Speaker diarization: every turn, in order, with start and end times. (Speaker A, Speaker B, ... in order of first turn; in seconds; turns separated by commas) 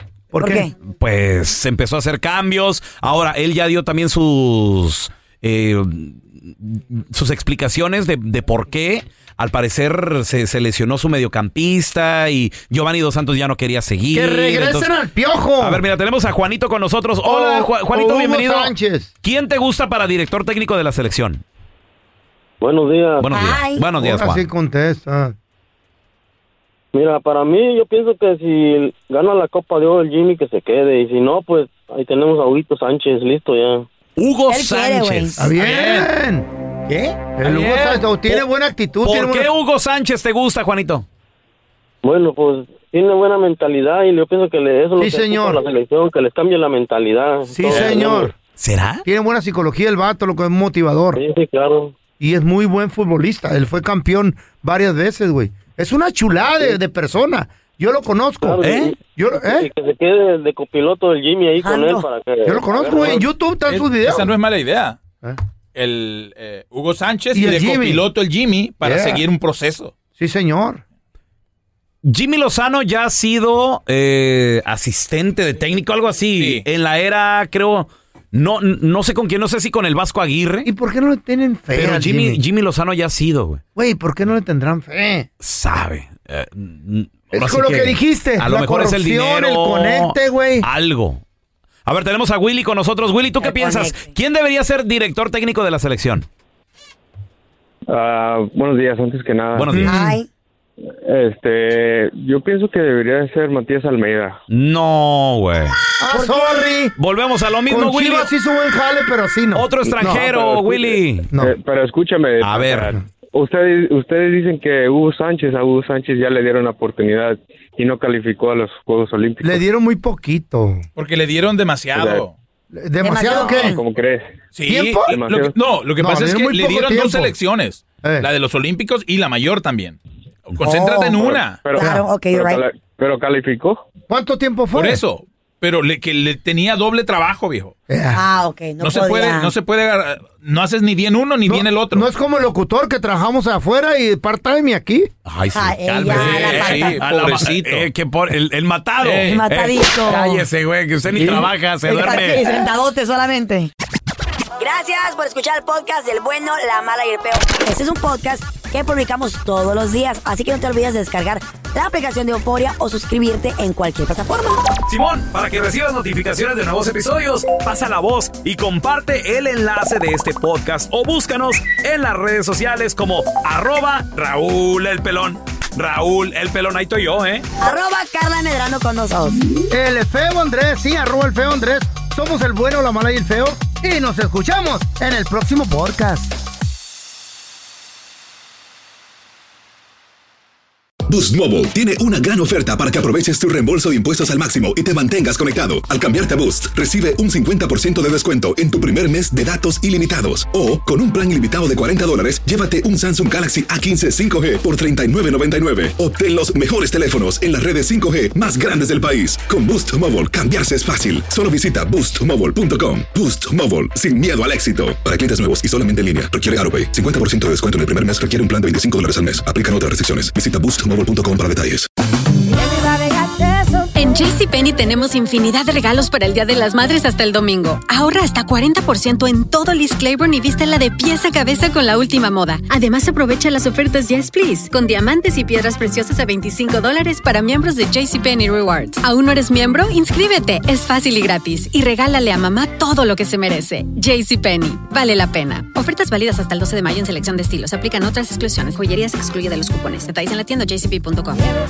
Speaker A: 0.3-0.7, Speaker B: 0.4-0.7, Speaker C: 0.9-14.9, Speaker A: 14.1-15.8, Speaker C: 15.6-21.4, Speaker A: 17.2-19.1, Speaker D: 22.6-23.3, Speaker C: 23.2-24.5, Speaker B: 23.3-23.8, Speaker A: 24.0-25.4, Speaker D: 26.9-33.9, Speaker C: 34.2-36.1, Speaker B: 34.5-35.4, Speaker A: 35.4-36.5, Speaker C: 36.9-38.4, Speaker A: 37.4-39.5, Speaker C: 39.0-41.1, Speaker D: 42.0-48.3, Speaker A: 45.0-45.6, Speaker A: 47.5-48.3, Speaker C: 48.6-49.0, Speaker A: 49.0-51.2, Speaker D: 51.1-52.0, Speaker A: 52.2-59.7, Speaker D: 58.4-63.2, Speaker C: 58.6-59.0, Speaker B: 61.6-62.0, Speaker A: 62.5-64.3, Speaker E: 63.7-65.0, Speaker E: 65.8-69.9, Speaker A: 67.3-68.1, Speaker A: 68.8-69.2, Speaker A: 70.2-70.8, Speaker C: 72.0-80.7, Speaker E: 76.4-76.6, Speaker A: 80.7-82.4, Speaker C: 81.7-83.6, Speaker A: 83.8-85.3, Speaker C: 85.4-91.2, Speaker A: 87.3-90.7, Speaker C: 91.9-96.3, Speaker B: 93.4-94.1, Speaker F: 97.9-99.8, Speaker C: 99.5-100.0, Speaker A: 99.7-100.2, Speaker B: 99.8-100.3, Speaker F: 101.1-104.4, Speaker C: 104.5-105.8, Speaker A: 106.0-107.0, Speaker B: 106.1-106.6, Speaker C: 107.0-108.3, Speaker A: 107.7-110.3, Speaker C: 109.5-111.3, Speaker F: 110.2-119.6, Speaker C: 112.4-113.0, Speaker A: 119.4-120.8, Speaker E: 121.0-122.4, Speaker F: 122.0-122.2, Speaker A: 122.7-123.8, Speaker B: 123.0-123.8, Speaker F: 123.3-124.3, Speaker E: 124.5-131.8, Speaker A: 124.7-125.2, Speaker F: 125.1-125.5, Speaker A: 126.0-127.3, Speaker A: 128.0-128.3, Speaker B: 130.6-132.6, Speaker F: 131.2-133.9, Speaker A: 131.8-132.1, Speaker A: 134.1-135.0, Speaker E: 134.7-137.8, Speaker A: 137.9-138.2, Speaker B: 138.1-139.5, Speaker E: 138.8-142.1, Speaker A: 141.5-145.1, Speaker C: 145.3-152.4, Speaker B: 145.5-147.0, Speaker E: 146.1-147.9, Speaker E: 149.0-149.5, Speaker B: 149.2-150.5, Speaker B: 151.9-153.7, Speaker B: 154.6-164.6, Speaker C: 164.9-177.5, Speaker B: 177.6-179.4, Speaker A: 179.7-186.3, Speaker G: 191.1-221.9, Speaker B: 223.0-223.4, Speaker H: 223.9-251.4